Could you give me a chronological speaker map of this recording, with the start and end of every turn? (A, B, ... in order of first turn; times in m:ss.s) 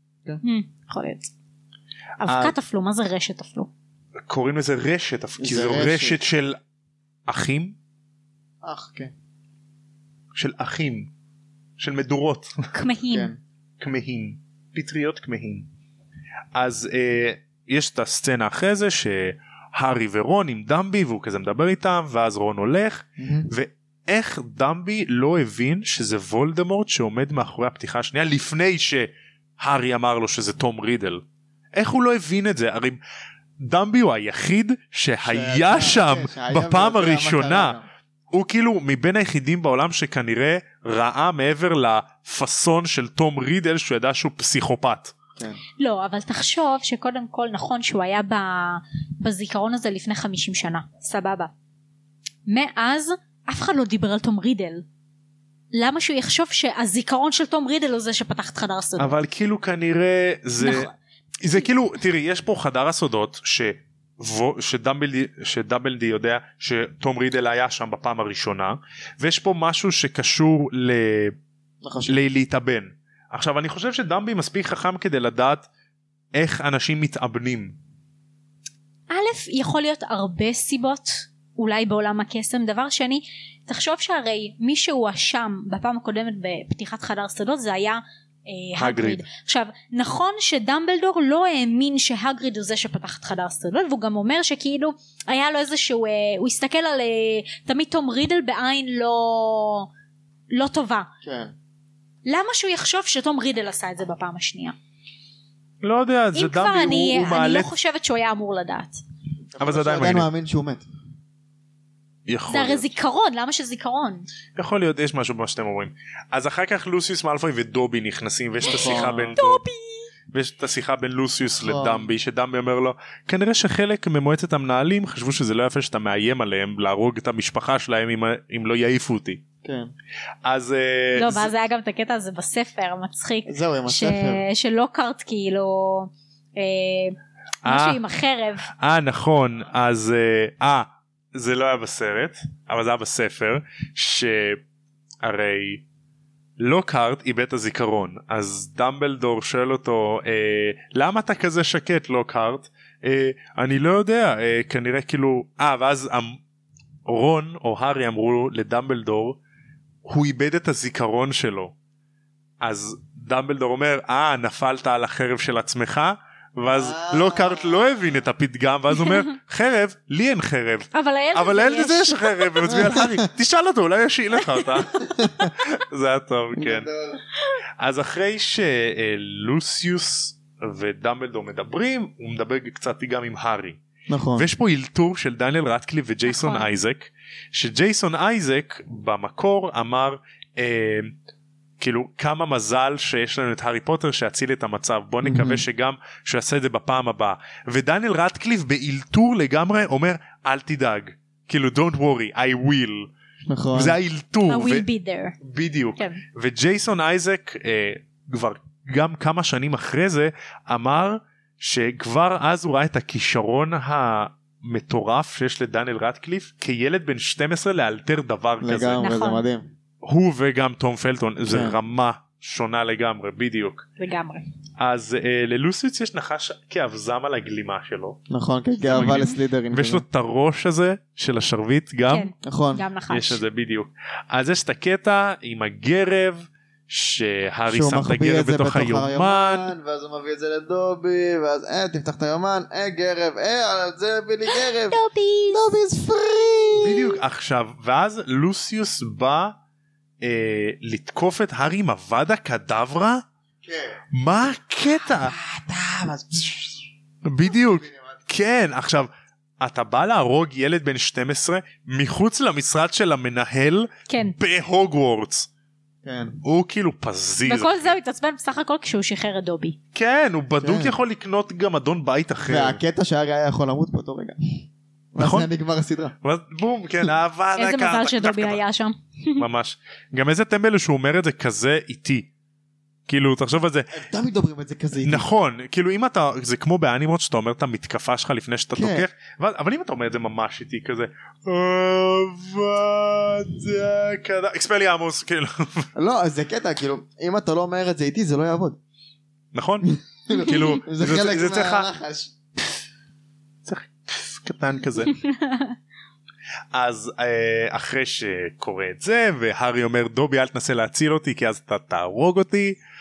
0:00.4-0:01.3 A
0:02.2-0:03.7 A
0:02.2-0:02.6 B
0:04.3-0:06.6 B
0:05.4-0:06.2 C
0:07.3-0:07.8 B
0:08.6-0:09.1 C
0:10.3-0:11.1 B
0:11.8-0:12.7 B
0:12.7-0:13.3 A
0:13.1-0:13.4 C
0:13.8-0:15.7 B
0:16.5-0:33.0 B
0:23.2-0:23.5 C
0:33.6-0:37.8 B
0:35.2-0:37.8 C
0:38.3-0:45.2 B
0:45.8-0:51.5 A
0:52.4-0:54.8 A
0:55.7-0:59.1 A
0:59.0-1:00.9 B
1:00.6-1:00.9 A
1:01.4-1:11.4 B
1:11.8-1:12.2 C
1:12.0-1:15.7 B
1:16.3-1:17.8 B
1:19.1-1:39.9 A
1:28.8-1:29.2 B
1:40.5-1:41.1 A
1:41.2-1:41.5 C
1:42.2-1:44.7 A
1:45.8-1:47.7 B
1:46.3-1:49.0 A
1:49.5-1:50.8 C
1:49.6-1:50.3 B
1:52.3-1:52.8 B
1:52.5-1:54.3 A
1:54.5-1:59.6 B
1:58.6-1:59.3 C
1:58.6-2:00.1 A
2:00.3-2:09.4 B
2:01.6-2:02.1 C
2:09.6-2:09.9 C
2:10.4-2:11.5 B
2:11.2-2:18.7 A
2:13.5-2:14.4 C
2:17.6-2:18.0 B
2:18.8-2:24.6 B
2:25.2-2:25.8 B
2:26.6-2:36.4 B
2:37.0-2:39.4 B
2:40.0-2:41.7 B
2:42.6-2:56.9 B
2:46.7-2:47.8 C
2:50.9-2:53.0 A
2:52.9-2:53.3 C
2:55.0-2:55.5 C
2:56.6-2:57.2 C
2:57.8-3:03.8 B
3:04.1-3:04.5 C
3:04.4-3:11.1 B
3:06.3-3:06.7 A
3:11.8-3:23.1 B
3:15.2-3:15.6 C
3:23.5-3:24.0 C
3:23.7-3:24.8 B
3:24.5-3:25.4 A
3:25.4-3:39.0 B
3:38.6-3:39.7 C
3:39.0-3:39.4 A
3:40.0-3:43.8 B
3:41.5-3:41.7 C
3:44.0-3:44.4 A
3:44.8-3:48.2 B
3:48.3-3:50.0 C
3:48.8-3:52.3 B
3:52.1-3:53.4 A
3:52.4-3:52.8 C
3:53.1-3:59.7 B
3:57.7-4:05.0 C
4:04.5-4:05.7 A
4:05.5-4:07.2 C
4:06.8-4:09.6 B
4:10.2-4:13.2 B
4:13.6-4:14.0 C
4:14.1-4:15.3 B
4:15.0-4:16.9 C
4:17.2-4:25.5 B
4:17.4-4:18.2 C
4:24.1-4:24.3 A
4:26.0-4:26.4 C
4:26.4-4:27.9 B
4:27.4-4:29.8 A
4:29.9-4:32.8 B
4:30.6-4:31.0 C
4:32.5-4:34.4 C
4:35.1-4:36.1 C
4:35.2-4:35.5 B
4:36.2-4:38.6 B
4:37.6-4:39.4 A
4:39.4-4:42.3 B
4:43.1-4:44.0 B
4:43.9-4:45.2 C
4:45.0-4:55.9 B
4:48.7-4:49.1 C
4:56.0-4:58.8 C
4:59.5-5:01.9 B
4:59.8-5:02.3 C
5:03.6-5:05.1 B
5:05.1-5:05.7 A
5:06.7-5:12.8 B